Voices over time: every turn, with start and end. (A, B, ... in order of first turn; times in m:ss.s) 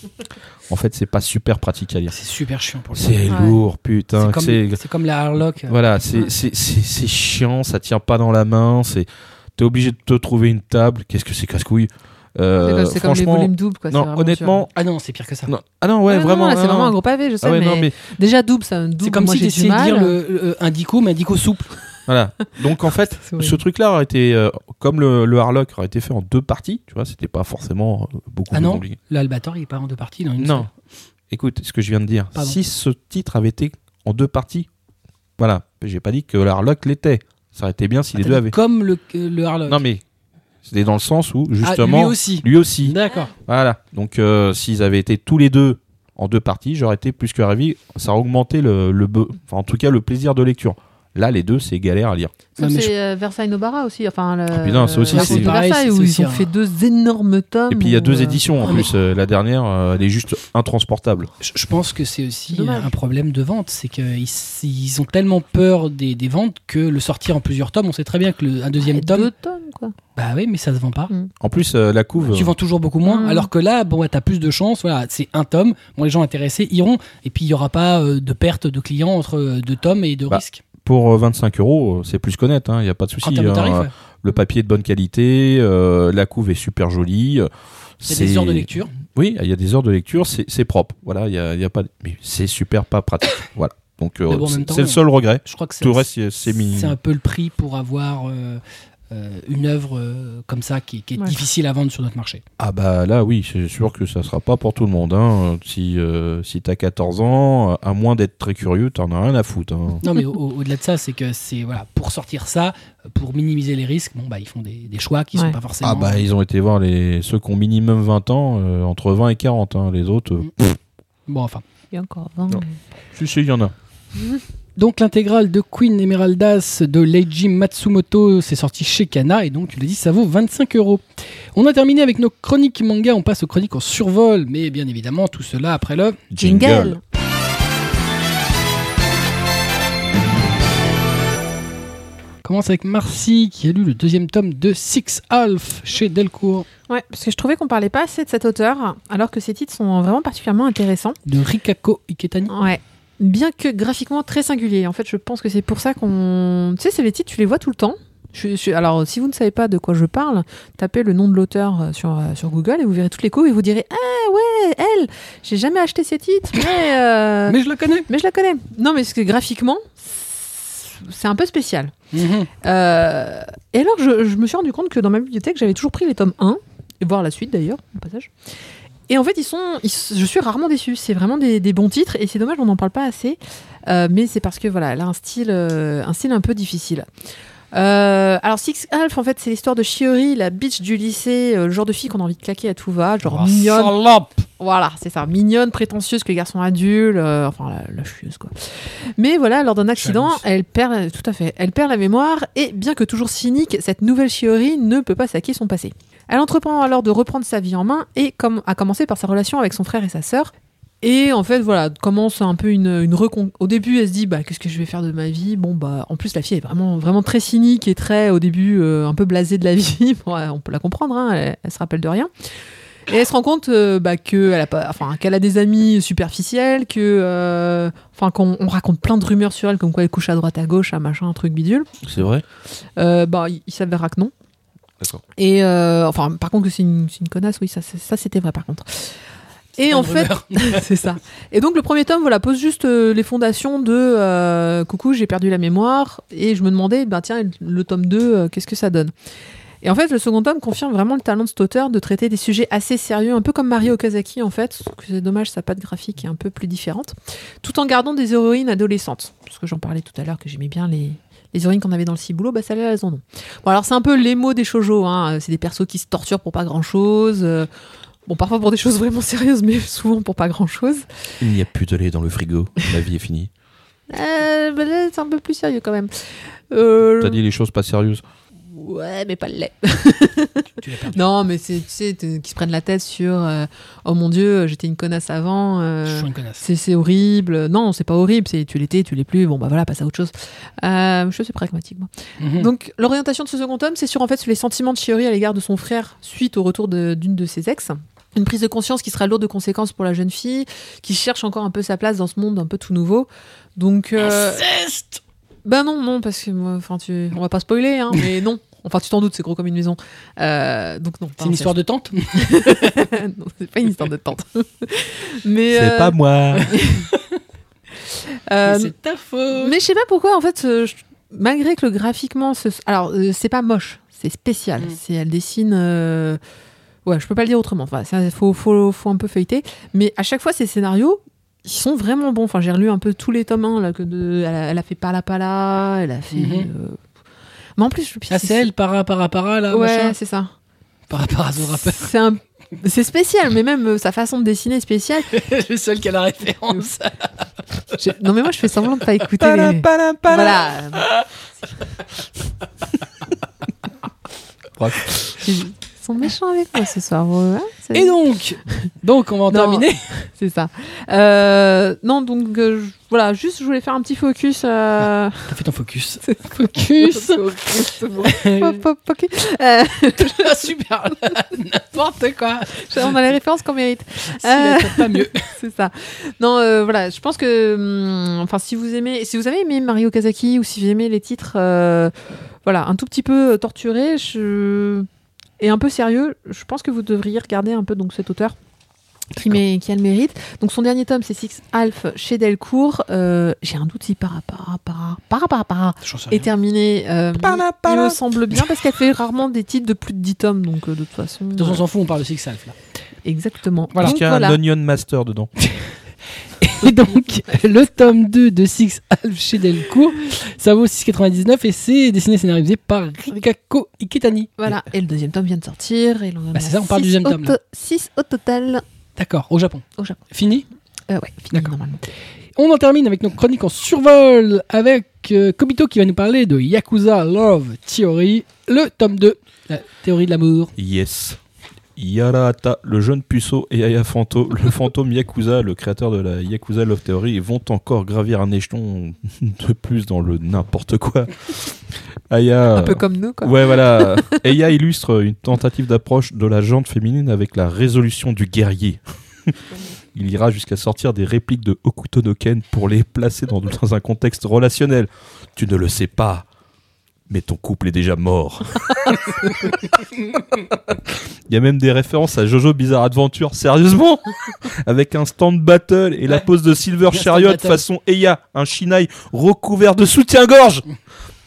0:00.7-0:02.2 A
0:02.1-0:03.3 B
0:02.9-0:04.8 A
0:03.3-0:03.6 C
0:04.2-0:05.8 B
0:05.7-0:14.7 A
0:12.6-0:14.7 C
0:14.8-0:15.5 B
0:15.5-0:18.0 A
0:16.1-0:20.2 C
0:19.0-0:21.7 B
0:22.1-0:29.0 A
0:23.2-0:23.6 C
0:28.5-0:30.7 B
0:30.4-0:30.7 A
0:31.3-0:34.7 A
0:35.4-0:38.6 A
0:38.2-0:39.8 B
0:39.7-0:40.0 A
0:40.6-0:52.4 A
0:41.6-0:43.3 B
0:52.6-0:58.4 C
0:52.6-0:52.9 B
0:54.5-0:55.6 A
0:55.1-0:56.5 B
0:57.7-1:01.3 A
1:01.4-1:09.3 B
1:02.5-1:02.9 C
1:08.8-1:10.0 C
1:10.2-1:11.1 B
1:11.4-1:12.6 A
1:12.3-1:20.6 B
1:13.0-1:13.5 C
1:20.3-1:27.5 A
1:23.2-1:23.9 B
1:28.0-1:37.0 A
1:28.1-1:28.9 B
1:34.3-1:42.4 B
1:42.6-1:50.0 A
1:50.0-1:56.2 B
1:55.8-2:00.8 A
2:01.3-2:01.6 B
2:01.9-2:02.8 C
2:02.5-2:03.7 A
2:04.8-2:11.0 B
2:11.6-2:16.2 B
2:16.3-2:17.0 A
2:16.4-2:17.0 C
2:22.4-2:26.7 B
2:26.9-2:31.2 C
2:31.3-2:32.5 B
2:32.5-2:47.6 C
2:47.5-2:48.1 B
2:48.1-2:51.9 C
2:52.1-2:52.5 B
2:52.6-2:58.3 C
2:59.1-3:07.1 C
3:07.7-3:14.0 C
3:13.2-3:14.3 B
3:14.6-3:42.3 C
3:20.0-3:20.4 B
3:43.1-3:51.9 C
3:52.0-3:52.4 A
3:52.8-3:54.3 C
3:55.4-3:59.2 C
3:59.8-4:09.1 C
3:59.8-4:00.9 B
4:09.8-4:27.7 C
4:28.3-4:31.1 C
4:31.4-4:33.5 A
4:34.1-4:37.4 C
4:37.2-4:38.2 A
4:38.7-5:04.6 C
4:40.8-4:41.2 B
4:46.1-4:46.6 B
4:52.4-4:52.7 B
5:04.2-5:05.2 B
5:05.6-5:11.8 C
5:11.4-5:13.1 B
5:12.3-5:17.1 C
5:15.7-5:16.7 A
5:18.0-5:18.9 C
5:18.6-5:19.8 B
5:19.5-5:26.4 C
5:27.1-5:37.0 C
5:36.3-5:36.7 B
5:37.8-5:38.7 C
5:38.3-5:40.2 B
5:39.7-5:40.5 C
5:41.1-5:42.1 B
5:41.7-5:45.4 C
5:45.3-5:47.4 B
5:48.0-5:51.1 C
5:49.4-5:50.6 A
5:51.0-5:51.3 B
5:54.8-5:55.2 A
5:55.4-5:58.2 C
5:57.9-6:00.1 B
5:59.5-6:05.5 C
6:05.5-6:08.8 B
6:06.2-6:10.7 C
6:10.2-6:13.2 B
6:12.7-6:22.1 C
6:14.3-6:15.5 B
6:22.6-6:25.1 C
6:25.6-6:28.6 C
6:29.4-6:41.8 C
6:36.0-6:36.5 B
6:37.4-6:38.2 A
6:41.6-6:42.8 B
6:43.2-6:44.6 C
6:44.0-6:45.5 A
6:46.6-6:54.5 B
6:54.6-6:58.8 C
6:56.5-6:57.6 B
6:59.2-7:00.6 B
7:01.1-7:02.0 C
7:02.6-7:10.7 B
7:10.8-7:11.4 A
7:12.0-7:29.6 A
7:22.7-7:24.4 C
7:30.1-7:36.5 A
7:37.3-7:39.3 A
7:41.5-7:50.8 A
7:47.1-7:47.8 B